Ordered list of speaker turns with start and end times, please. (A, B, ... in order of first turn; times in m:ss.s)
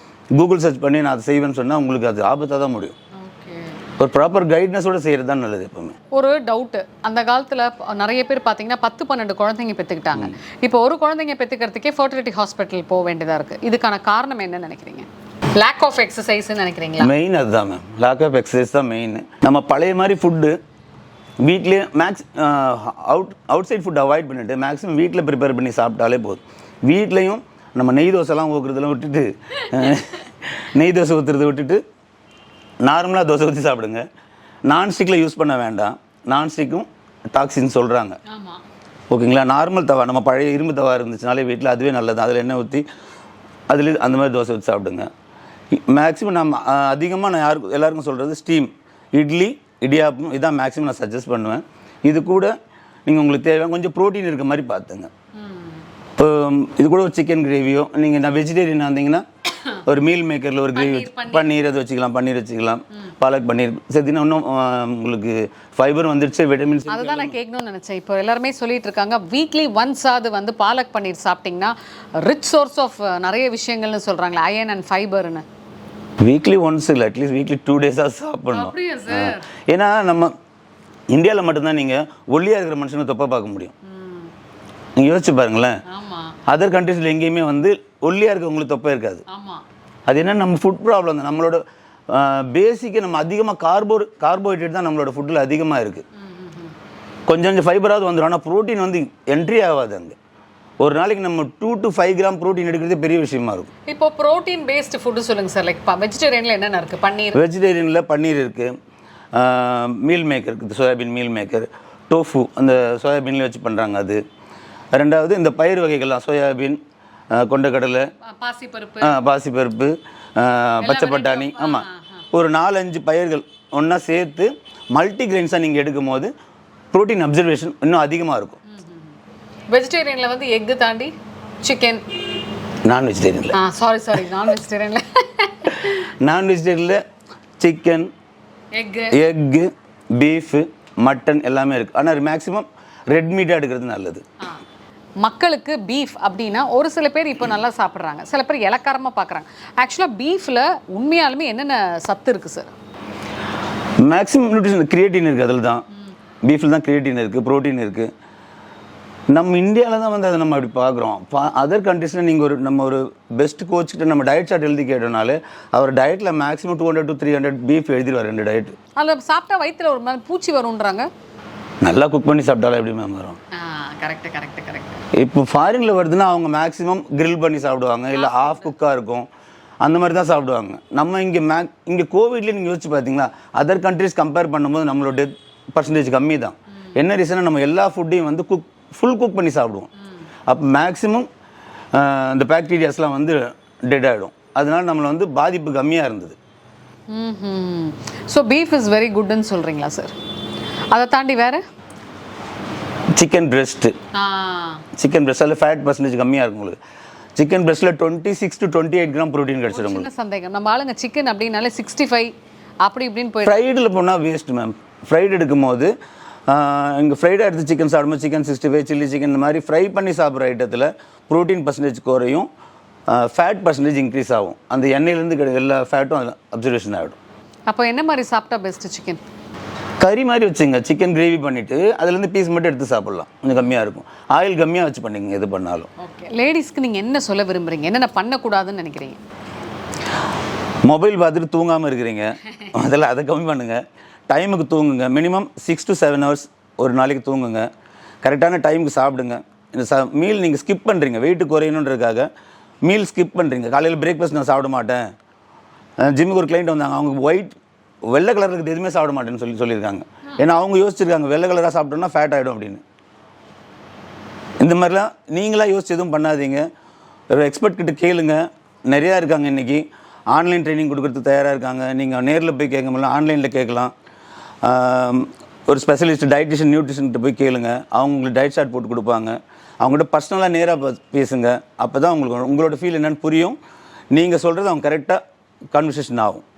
0:00.4-0:03.0 A
0:03.2-0:03.8 B
0:04.0-0:06.0 A
0:06.1-0:17.1 B
0:17.0-0:20.6 A
0:21.4-0:31.8 A
0:32.8-0:34.0 A
0:34.7-0:38.2 A
0:38.3-0:38.6 B
0:39.1-0:42.8 A
0:43.7-0:45.1 A
0:45.7-0:52.5 A
0:53.1-0:55.1 A
0:55.4-0:55.8 B
0:56.2-0:59.2 A
0:59.8-1:07.4 A
1:00.8-1:01.5 B
1:06.9-1:15.4 B
1:16.2-1:20.3 A
1:18.5-1:19.5 B
1:21.1-1:23.7 A
1:23.9-1:24.3 B
1:25.0-1:25.8 A
1:25.9-1:26.4 B
1:26.5-1:29.2 A
1:29.3-1:29.6 B
1:30.1-1:36.0 A
1:36.2-1:36.7 B
1:37.3-1:40.2 A
1:40.8-1:43.7 A
1:43.9-1:47.4 B
1:47.3-1:48.8 A
1:49.3-1:54.2 A
1:54.9-1:56.8 A
1:57.3-1:58.1 A
1:58.2-1:59.2 B
1:59.0-2:06.3 A
2:00.8-2:02.2 B
2:06.9-2:08.6 A
2:08.7-2:09.2 B
2:09.7-2:12.2 B
2:12.8-2:13.6 A
2:13.5-2:16.0 B
2:15.9-2:17.0 A
2:17.6-2:18.1 A
2:18.8-2:19.2 B
2:19.1-2:24.2 A
2:25.2-2:32.7 B
2:34.0-2:35.8 A
2:36.4-2:38.1 A
2:39.3-2:48.8 A
2:49.0-2:51.1 B
2:51.8-2:53.4 A
2:53.5-2:55.0 B
2:55.1-2:59.3 A
2:58.1-2:58.7 B
2:59.8-3:09.9 A
3:10.5-3:11.3 A
3:11.9-3:16.4 A
3:17.1-3:20.1 B
3:20.9-3:21.6 B
3:23.1-3:24.0 A
3:24.1-3:24.8 B
3:25.0-3:26.8 A
3:27.4-3:30.1 A
3:29.7-3:33.6 B
3:33.4-3:35.9 A
3:36.5-3:42.5 A
3:43.1-3:47.2 A
3:47.7-3:49.2 B
3:50.0-3:55.9 A
3:56.0-3:59.2 B
4:00.8-4:07.7 A
4:08.2-4:12.3 A
4:12.8-4:15.1 A
4:16.0-4:17.6 A
4:18.1-4:22.8 A
4:24.6-4:26.7 A
4:27.3-4:33.9 A
4:34.6-4:43.6 A
4:44.1-4:45.2 A
4:45.7-4:46.4 A